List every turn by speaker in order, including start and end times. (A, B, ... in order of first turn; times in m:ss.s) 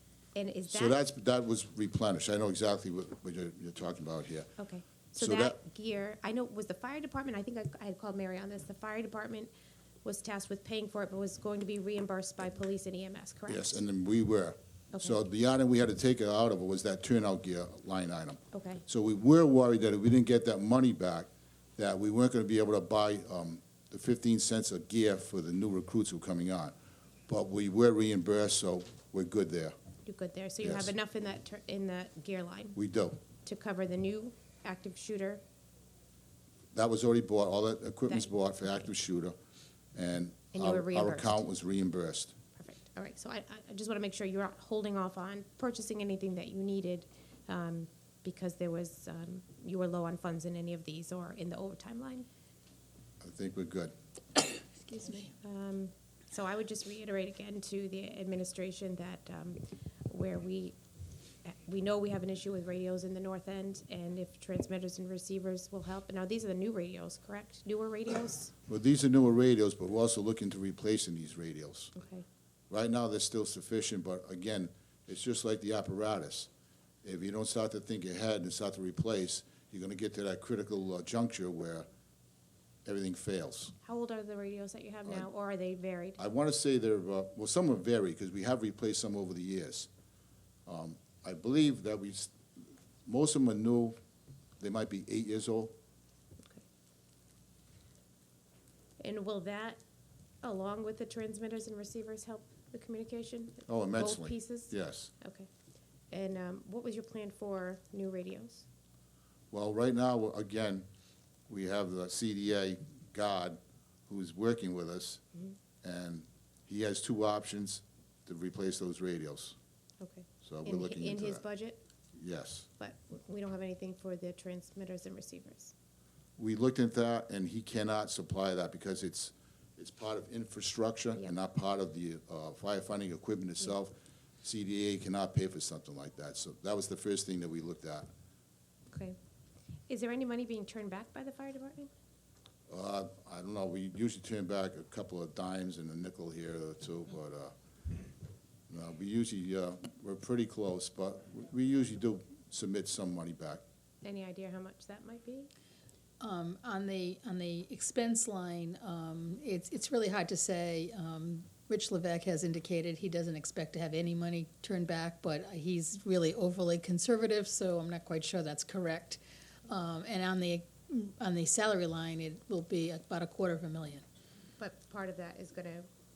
0:00.3-0:01.0 A
0:00.7-0:04.5 B
0:04.6-0:09.5 A
0:05.2-0:05.6 B
0:10.0-0:13.8 A
0:13.5-0:26.7 B
0:18.5-0:18.8 A
0:27.3-0:29.7 B
0:30.0-0:32.8 A
0:30.6-0:30.9 B
0:32.7-0:33.2 B
0:33.4-0:35.4 A
0:36.7-0:39.3 B
0:39.9-0:42.3 B
0:40.5-0:41.4 A
0:42.6-0:52.2 A
0:53.2-0:53.9 B
0:54.8-0:55.3 C
0:55.4-1:00.8 A
1:01.4-1:08.5 A
1:08.7-1:11.9 B
1:11.9-1:12.2 A
1:12.7-1:16.5 B
1:17.0-1:21.8 B
1:22.8-1:23.7 B
1:23.8-1:26.2 A
1:26.2-1:29.9 B
1:30.6-1:32.3 B
1:33.0-1:34.0 B
1:34.6-1:35.7 B
1:39.0-1:39.8 A
1:40.4-1:45.5 A
1:43.7-1:45.1 B
1:46.1-1:48.6 A
1:49.5-1:50.8 B
1:51.5-1:55.2 B
1:55.8-1:59.6 B
2:00.0-2:01.8 A
2:00.4-2:01.4 B
2:02.2-2:02.7 B
2:02.8-2:05.7 A
2:06.4-2:18.1 B
2:18.9-2:19.2 A
2:19.9-2:21.9 A
2:22.7-2:27.5 B
2:28.7-2:33.6 B
2:34.0-2:35.5 A
2:36.2-2:54.0 C
2:54.6-2:55.9 A